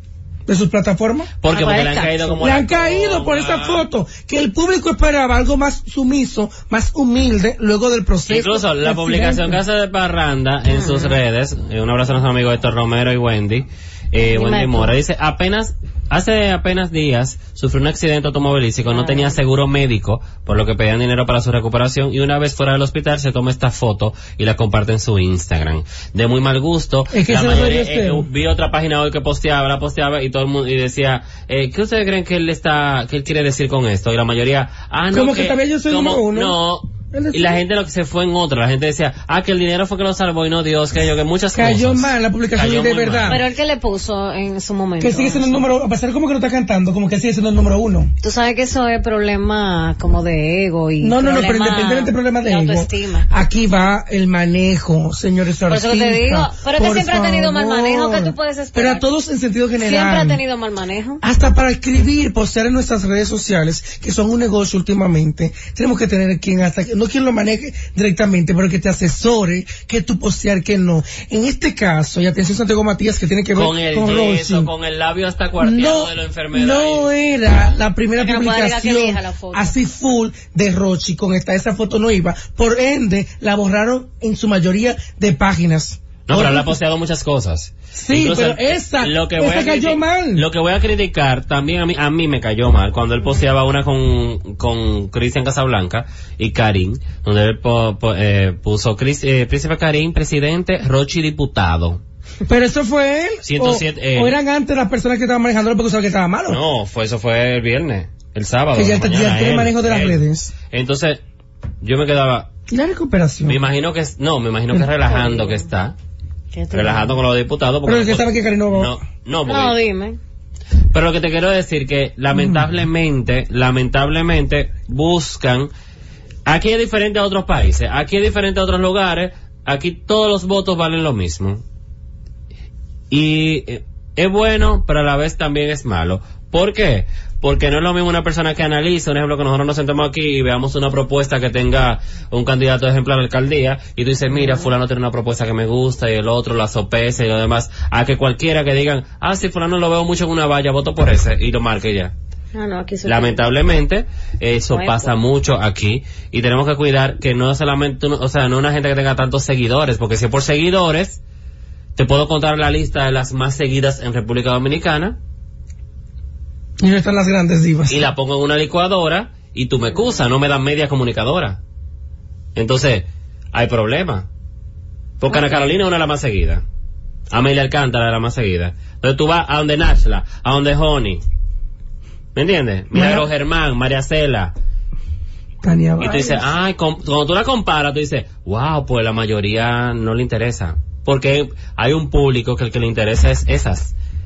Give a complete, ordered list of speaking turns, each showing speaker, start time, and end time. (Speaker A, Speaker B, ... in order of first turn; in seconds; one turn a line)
Speaker A: 0.5-1.3
Speaker B: 1.4-3.9
Speaker C: 1.4-2.4
Speaker A: 2.4-9.6
Speaker B: 8.2-43.4
Speaker C: 10.7-11.2
Speaker C: 14.3-14.9
Speaker C: 18.9-19.4
Speaker A: 27.1-28.3
Speaker A: 35.1-36.6
Speaker A: 37.1-37.6
Speaker A: 41.5-43.5
Speaker C: 43.3-45.6
Speaker A: 45.0-48.1
Speaker C: 48.2-53.3
Speaker A: 51.0-60.4
Speaker C: 55.7-59.0
Speaker C: 59.8-61.2
Speaker A: 61.2-74.7
Speaker B: 73.5-77.1
Speaker A: 75.6-86.7
Speaker C: 78.2-79.7
Speaker B: 86.3-102.0
Speaker A: 87.9-90.5
Speaker A: 102.5-106.6
Speaker B: 103.5-104.4
Speaker B: 106.5-111.2
Speaker A: 108.7-110.5
Speaker B: 111.8-112.5
Speaker A: 112.7-113.6
Speaker B: 113.5-115.9
Speaker C: 115.0-115.6
Speaker C: 116.5-117.1
Speaker B: 116.7-119.8
Speaker A: 117.9-119.0
Speaker C: 119.5-120.2
Speaker B: 120.9-125.7
Speaker A: 122.3-122.6
Speaker B: 126.5-131.6
Speaker B: 133.1-152.1
Speaker C: 144.4-144.7
Speaker C: 152.5-153.5
Speaker B: 153.0-161.2
Speaker C: 154.7-155.2
Speaker B: 161.9-165.2
Speaker A: 166.8-168.0
Speaker B: 167.9-171.6
Speaker B: 172.5-174.3
Speaker B: 175.2-176.6
Speaker B: 177.3-181.2
Speaker B: 182.3-184.5
Speaker A: 182.9-183.3
Speaker A: 185.6-186.5
Speaker B: 186.0-193.9